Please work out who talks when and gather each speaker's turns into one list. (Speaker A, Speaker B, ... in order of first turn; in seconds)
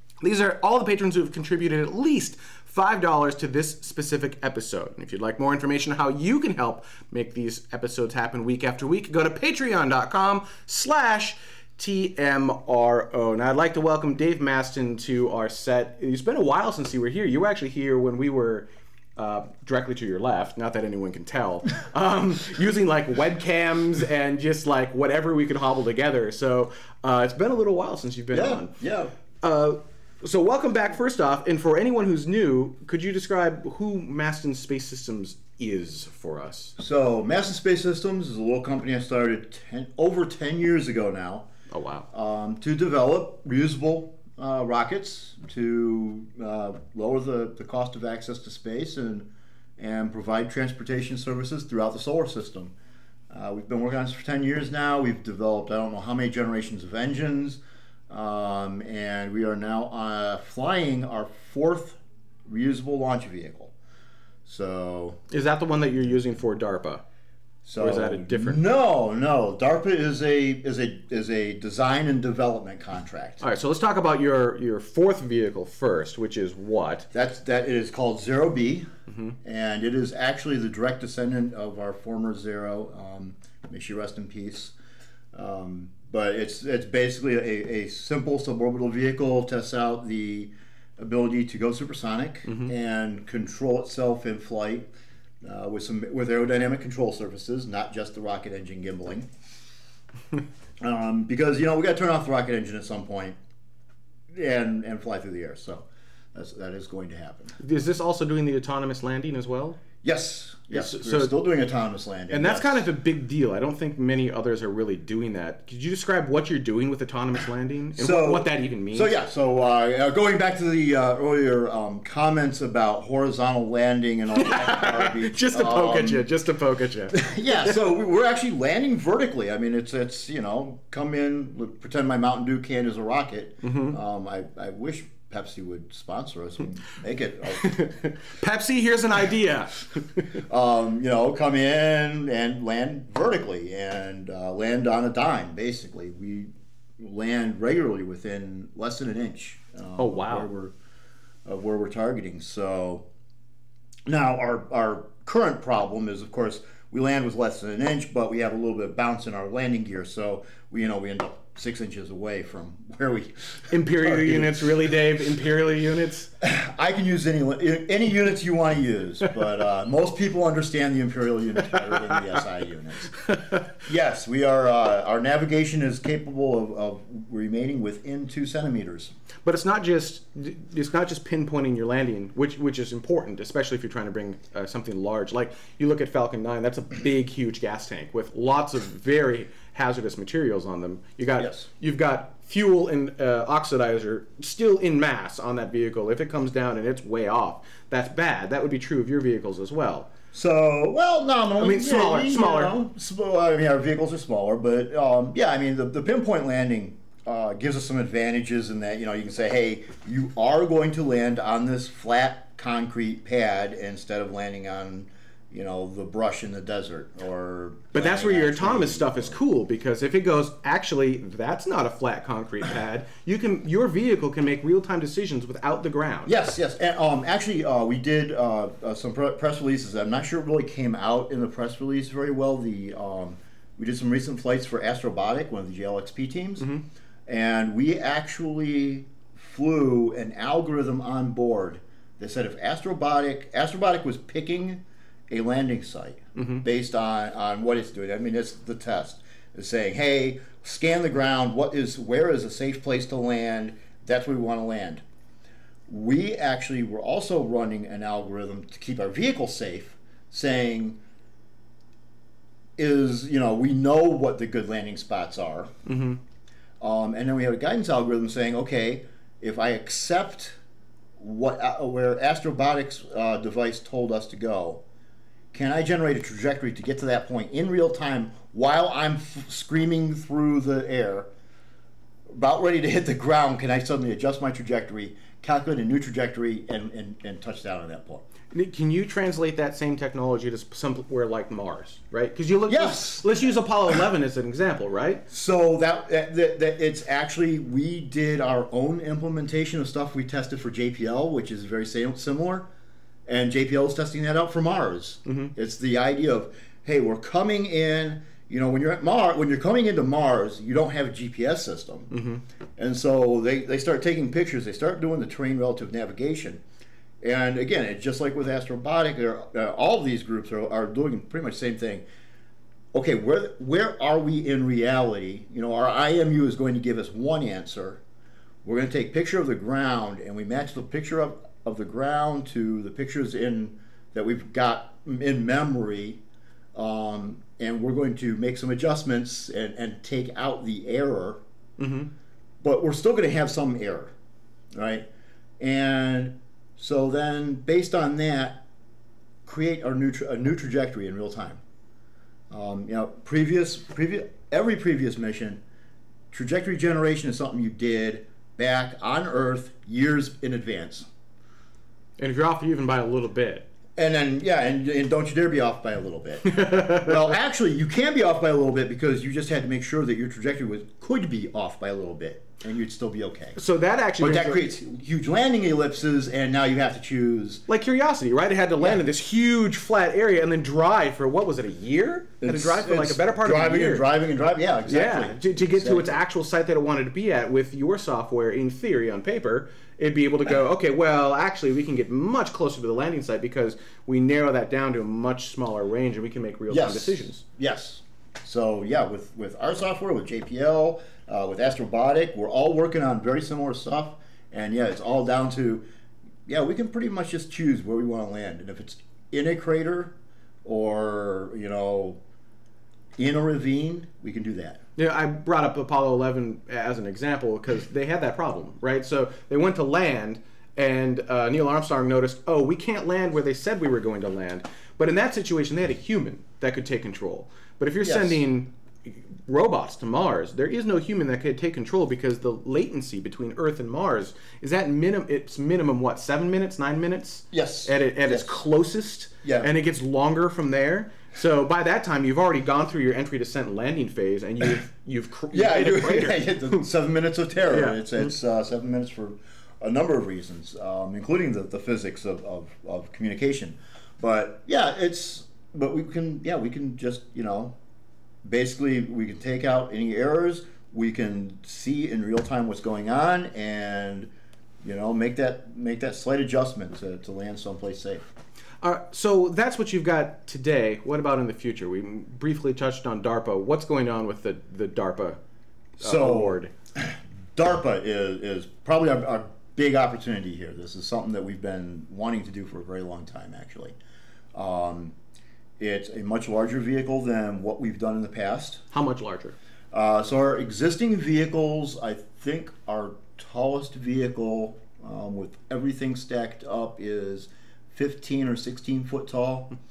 Speaker A: 0.2-28.7, 29.4-36.8, 41.7-42.1, 65.3-67.0, 67.8-68.6, 73.4-77.1, 79.1-79.3, 92.5-92.7, 107.6-109.8, 110.7-111.3, 112.3-119.1, 124.4-127.8, 133.6-134.0, 137.6-140.3, 150.0-150.5, 163.7-166.3, 173.1-173.7, 179.4-200.1, 201.6-202.8, 217.9-226.3, 236.6-236.8, 246.4-246.7, 265.9-266.2, 288.5-295.2, 305.3-305.5, 312.1-312.4, 341.8-342.1, 362.2-363.7, 366.5-367.2, 373.6-374.7, 377.7-384.1, 384.9-397.4, 415.0-446.8, 447.7-448.3, 468.8-475.4, 476.0-476.7, 488.9-489.6
Speaker B: 28.3-29.1, 36.8-41.5, 42.1-52.7, 53.3-63.7, 64.5-65.2, 67.7-73.4, 77.1-78.9, 79.4-84.8, 85.3-94.9, 95.4-99.3, 100.8-103.4, 104.3-107.6, 110.0-112.9, 118.0-126.3, 127.1-138.1, 140.5-150.7, 151.4-153.1, 154.1-164.9, 166.4-173.1, 173.8-179.1, 191.4-191.7, 200.3-219.4, 226.3-236.7, 237.3-255.0, 255.9-261.0, 262.8-265.8, 266.8-270.6, 271.2-274.8, 275.5-281.3, 282.3-288.2, 292.7-293.3, 295.3-302.7, 303.3-312.1, 312.8-316.6, 317.2-322.1, 322.9-328.0, 328.6-336.2, 336.7-341.4, 342.6-344.1, 344.7-345.1, 345.6-348.6, 349.4-351.6, 352.5-355.6, 356.3-361.1, 364.0-373.6, 374.2-377.6, 382.4-386.2, 396.7-405.9, 406.5-412.2, 413.2-414.8, 428.0-428.4, 437.5-438.6, 439.4-439.7, 445.5-457.8, 458.4-464.3, 464.8-468.3, 476.0-484.0, 484.5-485.2, 485.8-488.8, 489.9-499.7